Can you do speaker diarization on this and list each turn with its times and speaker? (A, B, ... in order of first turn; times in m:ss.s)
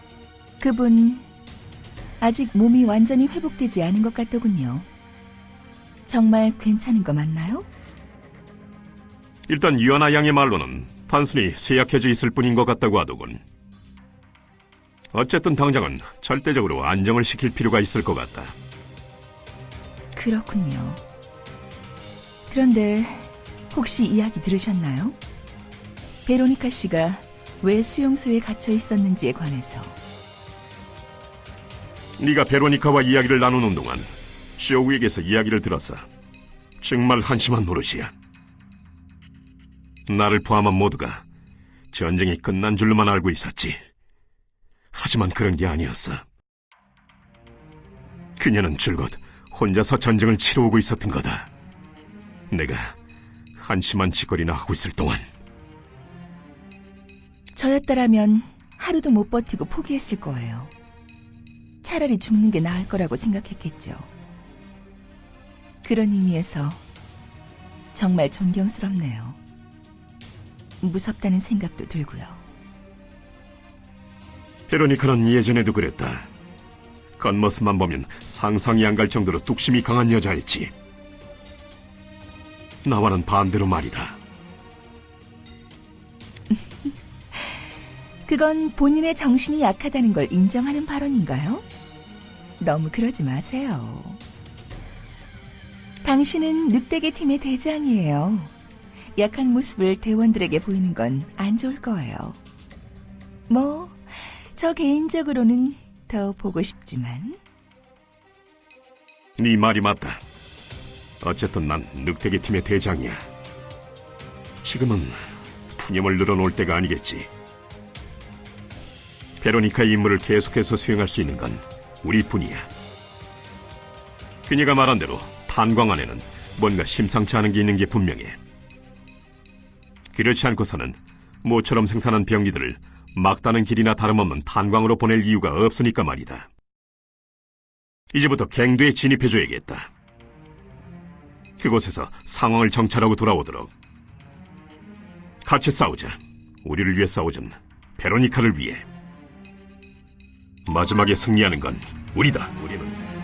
0:00.6-0:01.2 A
0:02.2-0:04.9 A
0:06.1-0:07.7 A
0:09.5-0:13.4 B
0:15.1-0:18.6 B
0:20.2-0:21.0 A
0:22.5-0:25.2 A
0:26.2-0:30.0 A
0:32.2-0:36.0 B
0:36.8-0:38.1 B
0:40.1-0:41.2 B
0:41.9-0:43.8 B
0:44.9-0:46.2 B
0:48.4-0:51.5 B
0:52.5-0:53.0 B
0:53.6-0:55.2 B
0:57.6-1:00.7 A
1:01.8-1:04.1 A
1:05.8-1:06.8 A
1:07.9-1:09.4 A
1:10.8-1:12.4 A
1:14.7-1:16.3 B
1:17.2-1:20.7 B
1:22.8-1:24.2 B
1:26.5-1:27.6 A
1:28.3-1:31.6 A
1:32.6-1:34.2 A
1:36.0-1:38.5 A
1:39.2-1:42.4 A
1:43.5-1:47.4 A
1:49.4-1:50.2 B
1:51.2-1:53.2 B
1:54.6-1:55.2 B
1:55.7-1:57.3 B
1:59.4-2:02.7 B
2:04.5-2:08.4 B
2:10.1-2:16.5 B
2:18.1-2:19.9 B
2:21.6-2:23.7 B
2:25.4-2:28.8 B
2:30.7-2:33.0 B